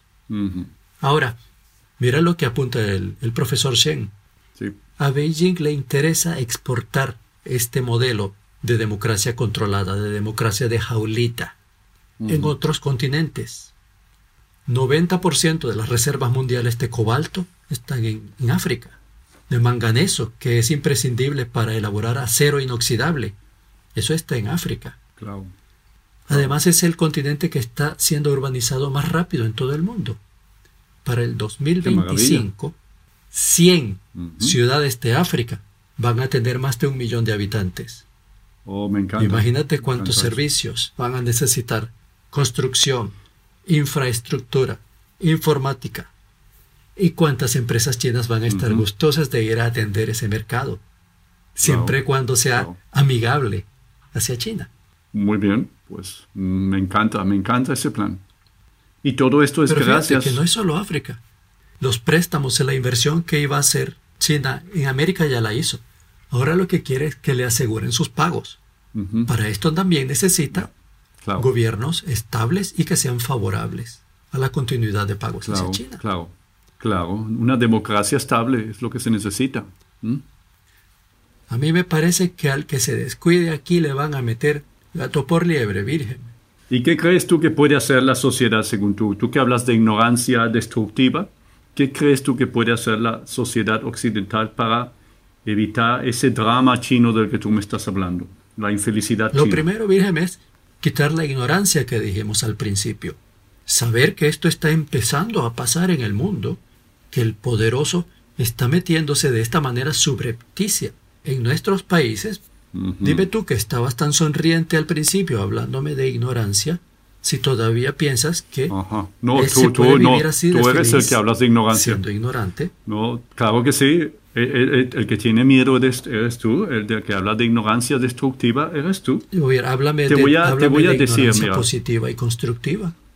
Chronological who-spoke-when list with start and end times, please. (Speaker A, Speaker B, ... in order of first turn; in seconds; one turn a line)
Speaker A: 0.3-0.7
Speaker B: 1.0-1.4
Speaker B: 2.0-4.1
Speaker B: 5.0-11.6
Speaker A: 12.2-12.5
Speaker B: 12.3-13.7
Speaker B: 14.7-19.0
Speaker B: 19.5-23.3
Speaker B: 23.9-25.0
Speaker A: 25.2-25.5
Speaker B: 26.3-30.2
Speaker A: 26.3-26.5
Speaker B: 31.0-32.8
Speaker A: 31.8-32.5
Speaker B: 33.3-38.0
Speaker A: 34.1-34.6
Speaker A: 38.6-40.4
Speaker B: 39.2-46.1
Speaker B: 47.0-50.8
Speaker A: 48.5-48.8
Speaker B: 51.5-54.7
Speaker A: 51.6-52.0
Speaker A: 55.1-58.2
Speaker A: 59.0-60.4
Speaker B: 59.7-61.2
Speaker B: 61.8-68.6
Speaker A: 68.9-69.3
Speaker B: 69.3-70.7
Speaker A: 71.2-71.5
Speaker B: 71.4-76.0
Speaker A: 75.4-80.2
Speaker B: 81.5-86.3
Speaker A: 86.7-94.9
Speaker A: 95.4-99.6
Speaker B: 99.3-106.6
Speaker B: 107.1-112.4
Speaker A: 112.7-113.3
Speaker B: 113.0-118.7
Speaker A: 118.7-122.0
Speaker B: 119.3-121.2
Speaker B: 121.7-122.7
Speaker A: 122.8-129.3
Speaker B: 129.3-132.9
Speaker A: 130.1-131.7